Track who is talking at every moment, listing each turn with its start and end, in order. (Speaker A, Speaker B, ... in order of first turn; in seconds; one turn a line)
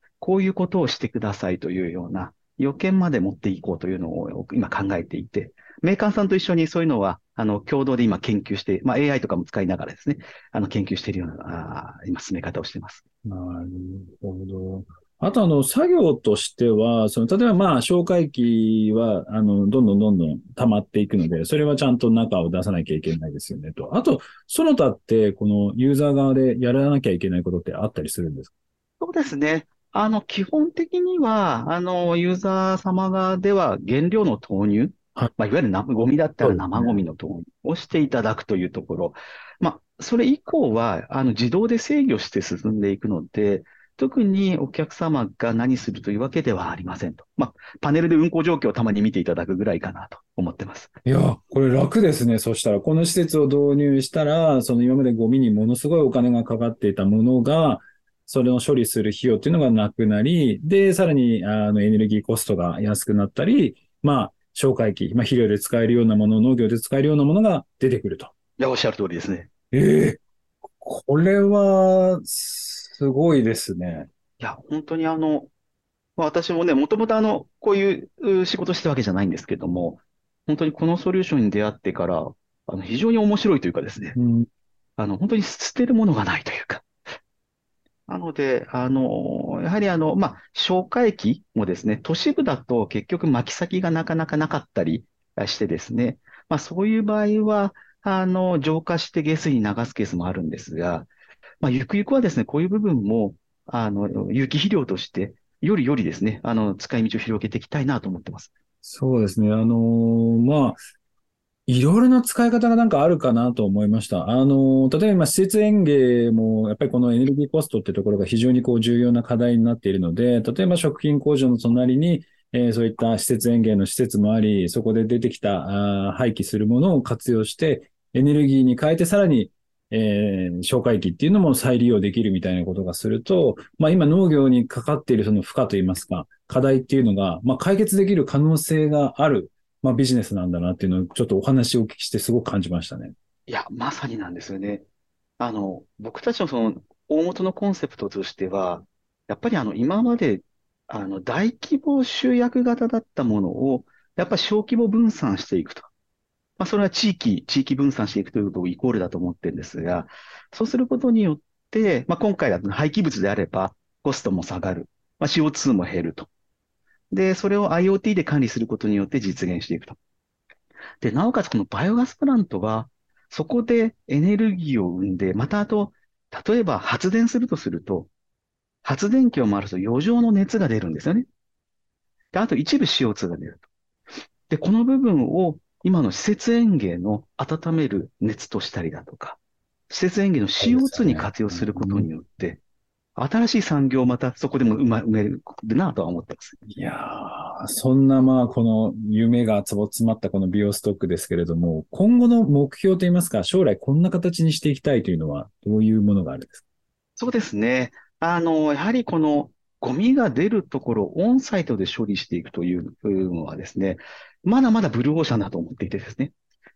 Speaker A: 0.2-13.0
Speaker B: 13.2-28.5
Speaker A: 29.0-50.9
Speaker B: 36.4-37.0
Speaker B: 51.0-68.3
Speaker A: 68.6-69.5
Speaker B: 69.7-70.2
Speaker B: 70.8-74.1
Speaker A: 74.4-75.5
Speaker A: 76.2-84.2
Speaker B: 84.2-84.5
Speaker A: 85.0-86.8
Speaker A: 88.1-101.1
Speaker A: 101.6-108.5
Speaker B: 108.8-110.8
Speaker B: 111.7-143.1
Speaker A: 143.5-144.8
Speaker A: 145.4-155.9
Speaker A: 156.6-166.3
Speaker A: 167.1-170.0
Speaker A: 171.0-178.1
Speaker A: 178.8-181.3
Speaker A: 182.3-183.6
Speaker A: 184.5-189.4
Speaker A: 189.9-192.6
Speaker B: 190.6-192.1
Speaker A: 193.2-196.6
Speaker B: 196.7-206.6
Speaker A: 207.2-216.3